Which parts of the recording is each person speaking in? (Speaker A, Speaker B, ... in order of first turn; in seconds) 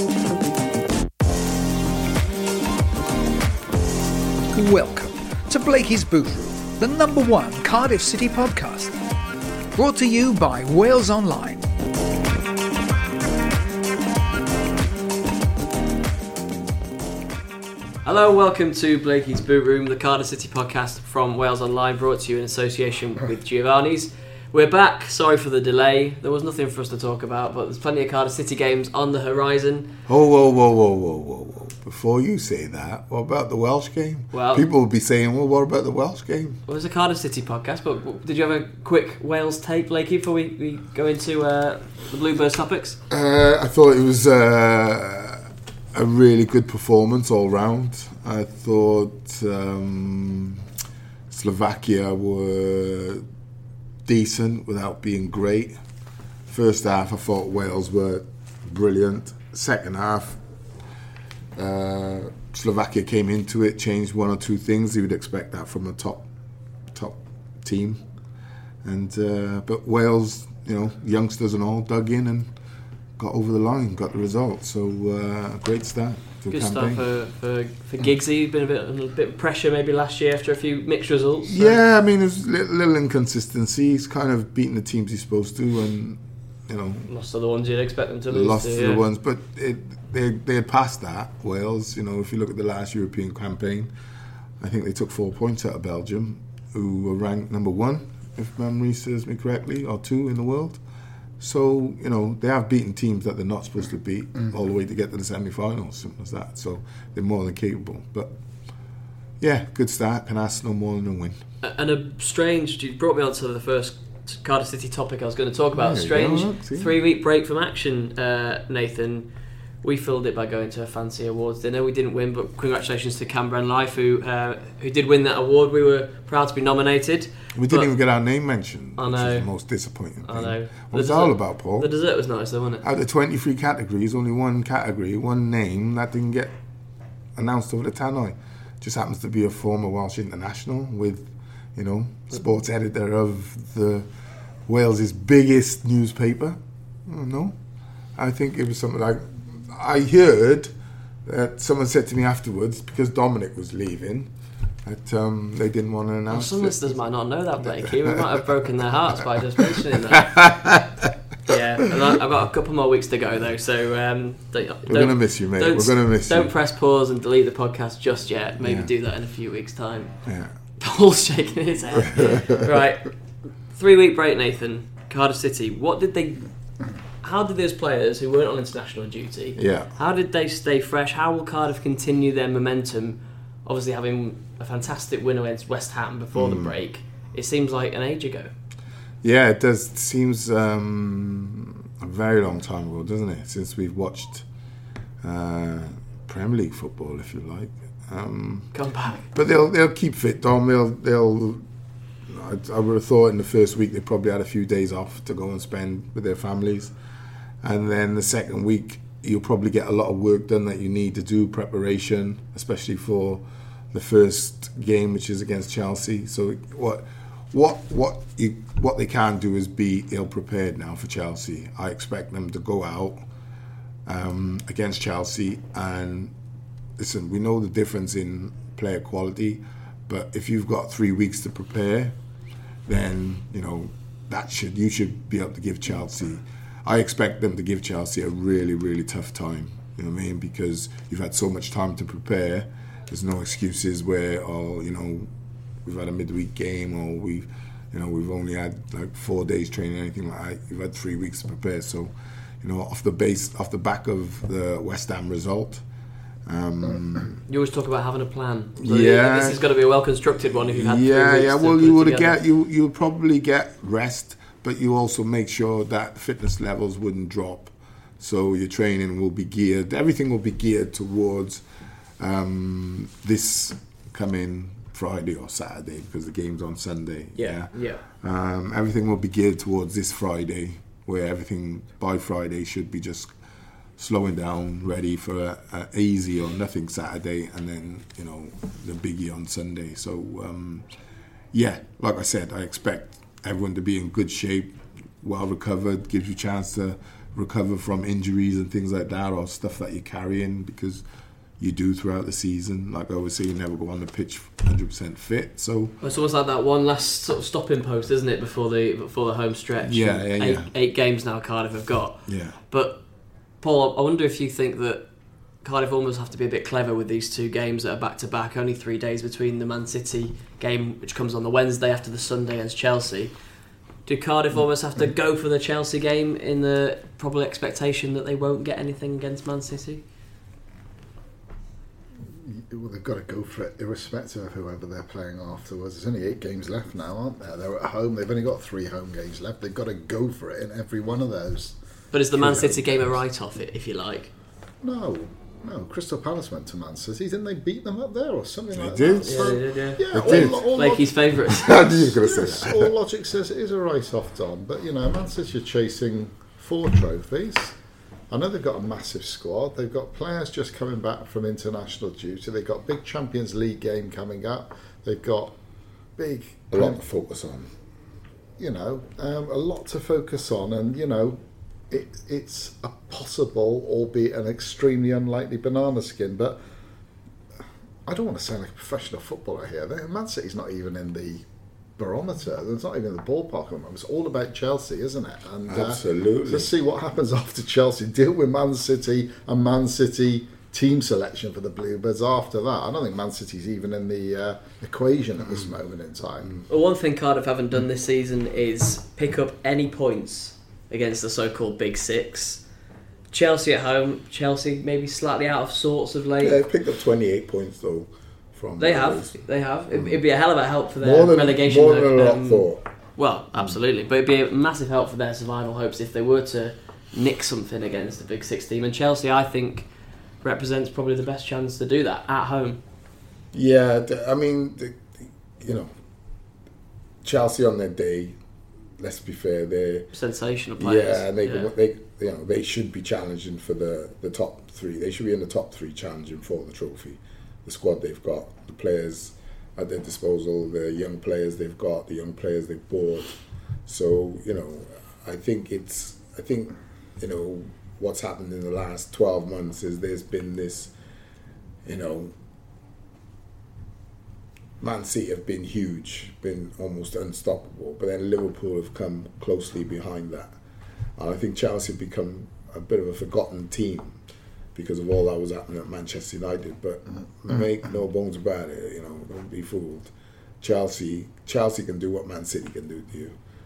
Speaker A: 4.5-8.9, 9.7-11.6
Speaker B: 18.0-29.9, 34.3-34.6, 36.7-43.0, 76.5-81.8, 87.1-89.0, 111.6-127.9, 129.0-129.5, 130.2-132.8, 156.3-160.3, 161.4-170.1, 170.8-173.1, 173.7-176.5, 177.2-188.5, 198.7-199.2, 257.4-262.4, 277.3-278.0, 306.0-313.0, 313.6-315.1, 315.6-323.3, 324.1-330.0, 342.1-344.3, 349.2-352.0, 396.7-402.6, 403.3-406.6, 408.8-419.9, 420.4-422.8, 430.1-431.7
Speaker C: 30.1-36.6, 43.1-50.6, 51.3-53.2, 54.0-55.8, 56.5-60.4, 61.5-66.2, 66.9-68.0, 68.8-72.5, 73.2-77.0, 81.5-87.1, 88.3-93.9, 94.6-100.8, 101.4-108.3, 109.4-111.4, 115.8-116.9, 127.5-131.9, 132.8-136.5, 137.3-144.1, 144.7-147.6, 148.2-150.7, 151.2-154.3, 154.8-156.9, 157.9-158.2, 159.6-161.1, 164.9-166.5, 168.6-168.9, 170.2-170.5, 172.2-172.4, 179.6-179.9, 186.3-186.7, 189.2-194.4, 195.2-198.7, 199.2-201.6, 202.3-206.9, 207.6-223.2, 224.1-226.3, 227.0-232.1, 232.8-245.3, 245.8-255.8, 256.4-257.4, 258.8-259.6, 260.5-271.6, 272.2-283.3, 284.0-290.9, 291.5-301.0, 301.6-305.9, 309.8-310.7, 312.3-312.6, 348.7-350.6, 351.4-352.9, 366.7-367.7, 385.7-386.7, 406.4-409.4, 411.0-412.8, 423.5-425.9, 427.2-428.4, 429.0-430.1, 430.8-443.3, 443.9-450.9, 451.8-452.3, 454.8-460.5, 461.2-464.2, 464.7-473.4
Speaker D: 332.3-341.8, 344.8-351.1, 351.8-357.8, 358.3-365.6, 366.2-367.0, 368.6-376.6, 378.1-381.4, 382.0-396.5